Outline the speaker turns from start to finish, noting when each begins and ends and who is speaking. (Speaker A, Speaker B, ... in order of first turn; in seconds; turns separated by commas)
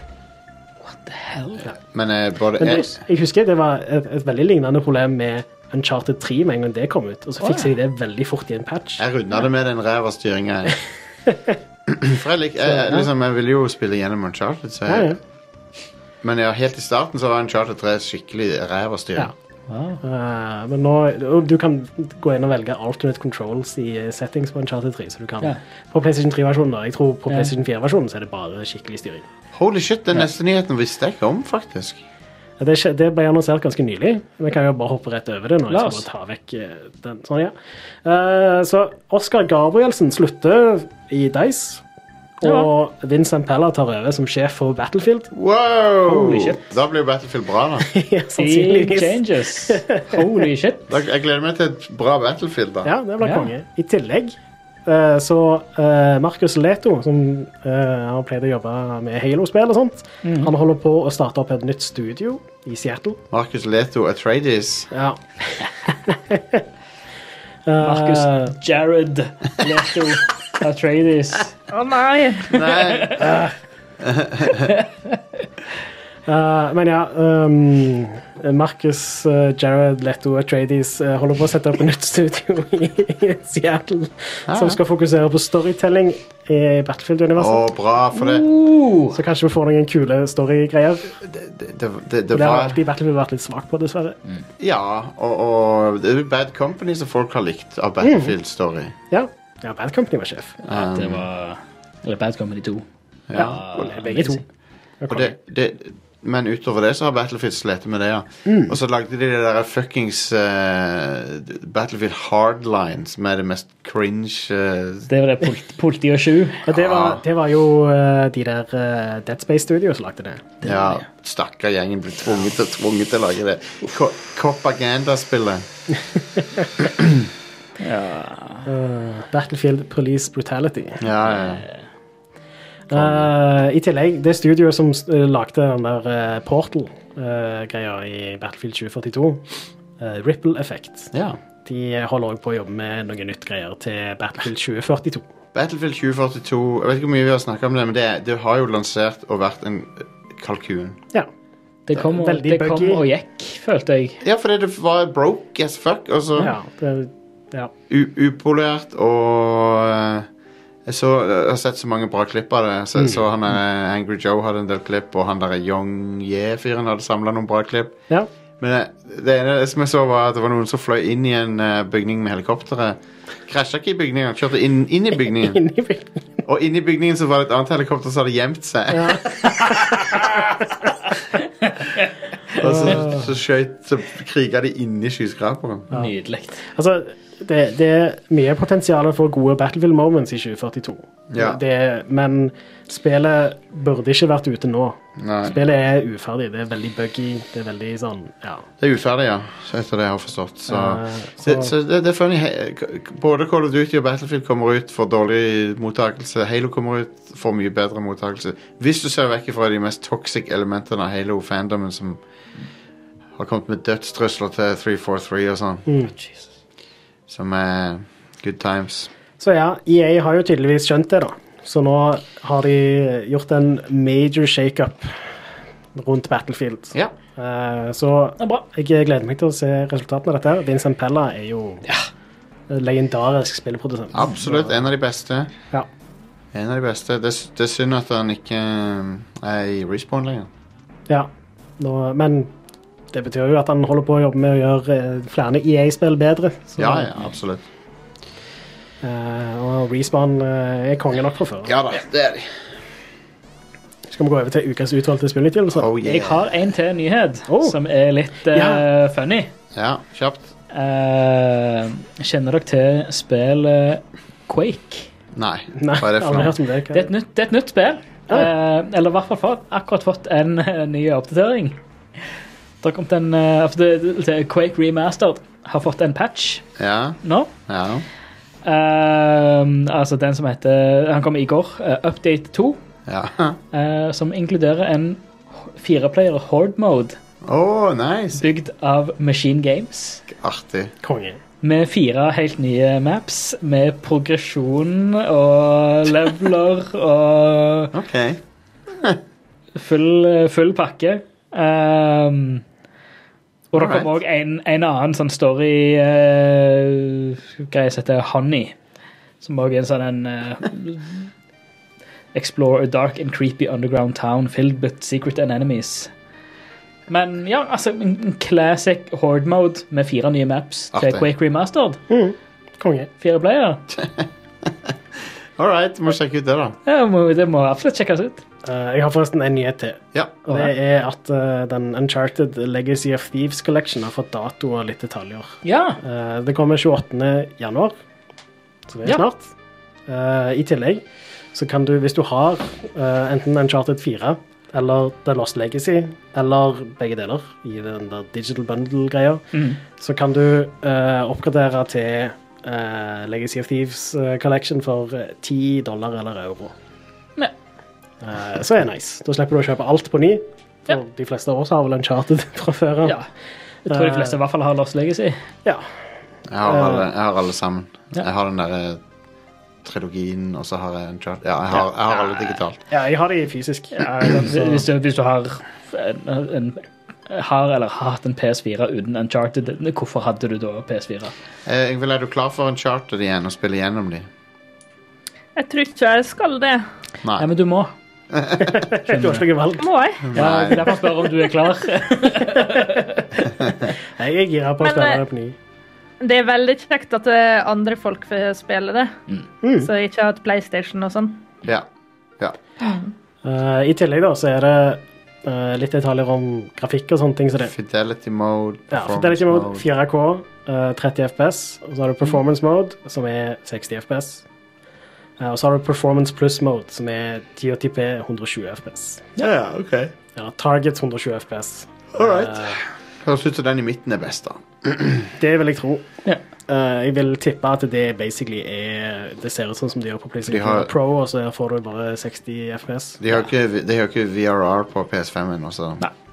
Speaker A: 0.8-1.7, Speaker B: 1.8-3.0, Speaker C: 2.6-9.0, Speaker A: 7.4-7.7, Speaker B: 9.0-10.8, Speaker C: 11.3-11.6, Speaker B: 11.9-15.1, Speaker C: 12.6-13.1, Speaker C: 14.9-15.2, Speaker B: 16.2-19.3, Speaker A: 19.7-20.0, Speaker C: 20.0-29.2, Speaker B: 29.5-32.0, Speaker C: 32.6-41.8, Speaker A: 35.7-36.0, Speaker C: 42.4-45.3, Speaker B: 45.3-47.9, Speaker A: 46.0-46.7, Speaker C: 47.9-50.4, Speaker A: 48.4-50.9, Speaker B: 50.9-52.9, Speaker C: 52.8-63.2, Speaker A: 53.2-53.5, Speaker A: 60.2-60.5, Speaker B: 63.3-64.9, Speaker C: 64.9-66.6, Speaker C: 67.7-68.5, Speaker A: 67.8-71.5, Speaker D: 71.7-72.6, Speaker B: 72.5-73.3, Speaker A: 72.7-73.2, Speaker C: 73.2-73.5, Speaker B: 74.0-74.7, Speaker A: 74.5-75.2, Speaker C: 76.2-87.7, Speaker B: 84.5-84.8, Speaker B: 87.3-88.5, Speaker A: 88.1-89.2, Speaker C: 89.1-91.1, Speaker B: 91.2-92.8, Speaker C: 92.3-94.2, Speaker B: 94.6-98.9, Speaker C: 98.0-98.3, Speaker C: 99.1-100.6, Speaker A: 100.6-102.8, Speaker B: 100.7-101.2, Speaker B: 103.3-104.0, Speaker C: 103.3-104.4, Speaker A: 103.3-104.4, Speaker C: 105.0-105.3, Speaker B: 105.1-115.1, Speaker C: 108.5-108.8, Speaker A: 115.1-116.7, Speaker C: 116.7-120.5, Speaker B: 116.7-117.2, Speaker A: 120.6-121.0, Speaker B: 120.6-125.6, Speaker B: 126.8-127.3, Speaker A: 127.8-128.7, Speaker C: 128.7-131.0, Speaker B: 131.0-131.6, Speaker C: 132.9-139.4, Speaker B: 132.9-133.3, Speaker C: 140.0-141.1, Speaker B: 141.1-141.4, Speaker C: 141.6-145.2, Speaker B: 145.5-151.0, Speaker A: 151.9-154.2, Speaker C: 152.1-153.0, Speaker B: 154.2-156.5, Speaker C: 156.4-157.7, Speaker B: 157.9-160.3, Speaker B: 160.8-168.0, Speaker B: 168.6-175.6, Speaker C: 175.4-176.2, Speaker B: 176.4-179.7, Speaker C: 178.9-180.5, Speaker A: 181.6-182.9, Speaker B: 182.6-185.9, Speaker C: 182.6-183.3, Speaker A: 185.9-186.6, Speaker C: 186.6-198.7, Speaker B: 191.3-191.6, Speaker B: 195.2-195.6, Speaker B: 198.8-212.2, Speaker C: 200.7-201.7, Speaker B: 213.3-215.9, Speaker C: 215.9-216.1, Speaker A: 216.2-216.4, Speaker B: 217.3-219.1, Speaker C: 219.4-225.2, Speaker C: 225.9-231.8, Speaker A: 228.4-228.6, Speaker C: 232.7-234.8, Speaker B: 234.1-235.5, Speaker B: 236.5-240.5, Speaker C: 241.1-242.5, Speaker C: 243.1-247.1, Speaker B: 246.8-247.6, Speaker C: 249.0-251.7, Speaker B: 251.6-252.6, Speaker C: 254.1-255.9, Speaker B: 255.7-256.4, Speaker A: 256.0-259.5, Speaker C: 257.5-257.8, Speaker C: 258.5-258.8, Speaker B: 259.7-260.5, Speaker A: 260.7-265.1, Speaker B: 265.3-266.6, Speaker C: 265.8-267.1, Speaker A: 266.9-271.8, Speaker A: 272.8-276.6, Speaker B: 276.8-278.0, Speaker A: 277.2-277.5, Speaker A: 278.6-282.8, Speaker B: 283.1-283.6, Speaker A: 283.7-287.2, Speaker B: 287.4-288.4, Speaker A: 288.3-290.2, Speaker B: 290.3-290.9, Speaker C: 291.0-291.4, Speaker A: 291.6-297.9, Speaker B: 297.9-298.4, Speaker A: 299.8-302.6, Speaker A: 303.7-308.8, Speaker B: 303.7-304.1, Speaker A: 309.4-311.3, Speaker A: 312.3-316.1, Speaker A: 317.1-322.0, Speaker B: 320.9-321.2, Speaker C: 322.1-323.1, Speaker A: 323.2-323.8, Speaker B: 323.9-324.9, Speaker B: 325.6-326.8, Speaker A: 326.9-328.4, Speaker C: 328.6-337.9, Speaker B: 330.1-330.5, Speaker A: 335.6-336.0, Speaker C: 338.9-339.5, Speaker C: 340.1-341.0, Speaker C: 341.5-356.7, Speaker A: 349.5-349.8, Speaker C: 358.2-363.1, Speaker A: 363.9-365.4, Speaker C: 363.9-364.4, Speaker B: 366.5-369.0, Speaker C: 366.6-367.1, Speaker B: 369.8-372.8, Speaker C: 372.9-374.9, Speaker A: 373.9-381.3, Speaker B: 381.6-384.3, Speaker D: 385.6-386.8, Speaker B: 387.2-387.5, Speaker A: 387.4-387.9, Speaker B: 388.3-388.8, Speaker C: 388.6-391.0, Speaker A: 389.1-389.4, Speaker D: 389.8-390.2, Speaker B: 390.2-390.9, Speaker A: 390.3-393.4, Speaker C: 392.4-393.0, Speaker C: 394.2-395.5, Speaker D: 394.8-395.2, Speaker D: 396.2-399.1, Speaker C: 399.6-399.9, Speaker D: 399.8-401.4, Speaker D: 402.8-403.1, Speaker C: 403.4-407.7, Speaker B: 407.6-409.8, Speaker C: 408.9-414.4, Speaker C: 415.4-419.3, Speaker B: 419.4-420.1, Speaker C: 420.3-422.8, Speaker B: 422.1-425.3, Speaker C: 425.4-426.1, Speaker C: 426.7-433.2, Speaker B: 430.4-430.9, Speaker B: 433.2-436.0